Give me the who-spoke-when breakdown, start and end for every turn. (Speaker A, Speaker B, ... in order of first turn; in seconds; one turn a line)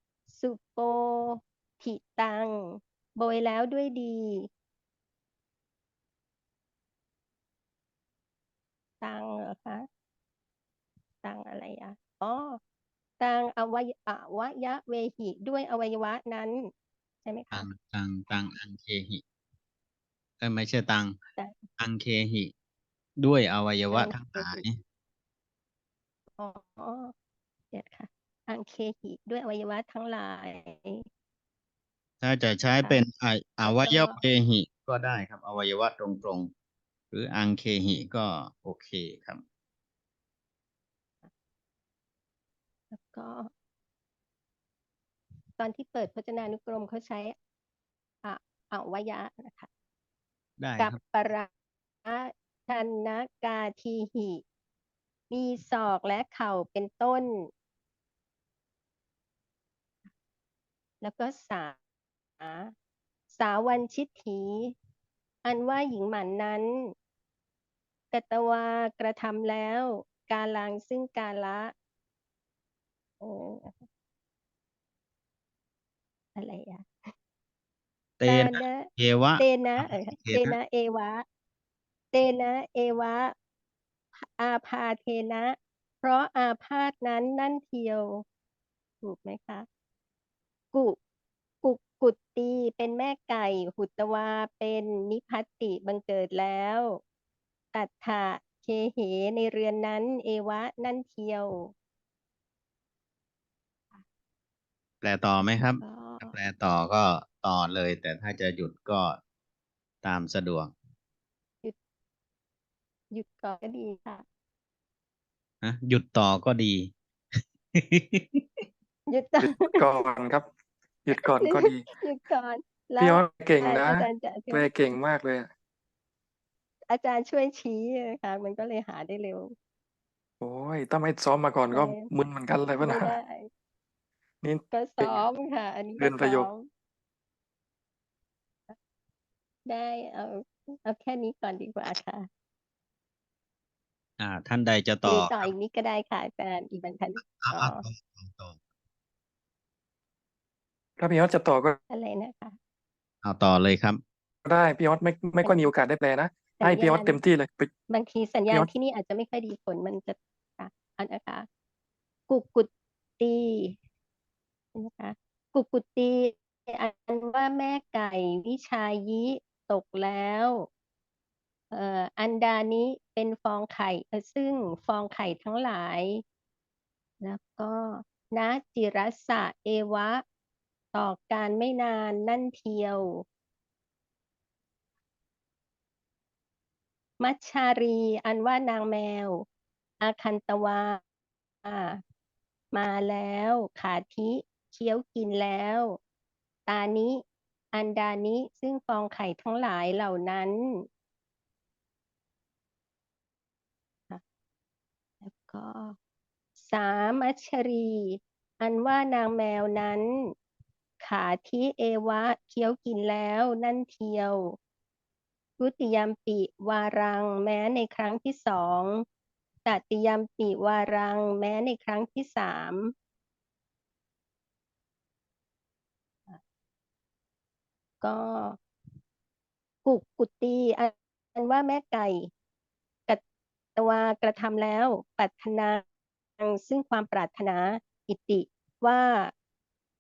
Speaker A: 0.3-4.5
Speaker A: 9.0-9.9
Speaker A: 11.2-12.6
Speaker A: 13.2-16.7
Speaker A: 17.2-17.7
Speaker B: 17.5-19.2
Speaker B: 20.4-21.2
Speaker A: 21.4-21.6
Speaker B: 21.8-22.5
Speaker B: 23.2-24.8
Speaker A: 23.9-24.6
Speaker A: 26.4-27.1
Speaker A: 27.7-31.0
Speaker B: 32.2-36.5
Speaker A: 33.6-34.2
Speaker B: 37.1-39.4
Speaker A: 42.9-43.5
Speaker A: 45.6-47.4
Speaker A: 48.2-49.7
Speaker B: 50.6-51.0
Speaker A: 50.8-51.5
Speaker A: 52.0-54.4
Speaker A: 55.3-57.5
Speaker A: 61.0-61.8
Speaker A: 62.4-62.7
Speaker A: 63.3-64.7
Speaker A: 65.4-66.9
Speaker A: 68.1-71.7
Speaker A: 73.2-73.8
Speaker A: 76.3-77.1
Speaker B: 78.2-80.5
Speaker A: 78.2-81.2
Speaker A: 82.1-83.3
Speaker A: 84.2-88.2
Speaker A: 89.0-89.7
Speaker A: 90.7-91.0
Speaker A: 91.6-97.0
Speaker A: 97.7-101.7
Speaker B: 105.0-109.2
Speaker A: 105.8-106.3
Speaker B: 110.0-110.7
Speaker A: 113.1-114.2
Speaker B: 115.6-116.9
Speaker B: 117.7-118.4
Speaker A: 119.1-119.8
Speaker C: 119.6-120.5
Speaker C: 121.0-121.9
Speaker A: 121.1-125.0
Speaker C: 123.0-125.5
Speaker A: 126.9-129.5
Speaker C: 130.4-133.1
Speaker A: 131.7-132.1
Speaker A: 132.8-133.5
Speaker C: 134.4-135.2
Speaker A: 134.7-136.7
Speaker C: 136.0-136.5
Speaker A: 139.7-142.3
Speaker B: 144.2-145.5
Speaker A: 145.0-147.8
Speaker B: 147.4-148.6
Speaker C: 151.0-151.8
Speaker A: 151.9-152.6
Speaker B: 153.2-154.0
Speaker C: 154.4-157.7
Speaker A: 156.6-157.2
Speaker A: 157.9-161.5
Speaker A: 162.3-163.8
Speaker A: 164.7-170.7
Speaker A: 171.7-176.2
Speaker A: 177.2-180.2
Speaker A: 180.9-183.2
Speaker A: 187.2-189.4
Speaker A: 190.0-191.0
Speaker A: 191.6-192.0
Speaker A: 192.7-196.0
Speaker A: 196.7-200.9
Speaker A: 205.2-205.9
Speaker A: 206.6-210.3
Speaker A: 211.0-214.6
Speaker A: 215.6-219.0
Speaker A: 219.6-222.9
Speaker A: 228.0-228.6
Speaker A: 229.8-232.3
Speaker A: 233.8-235.8
Speaker A: 236.4-239.3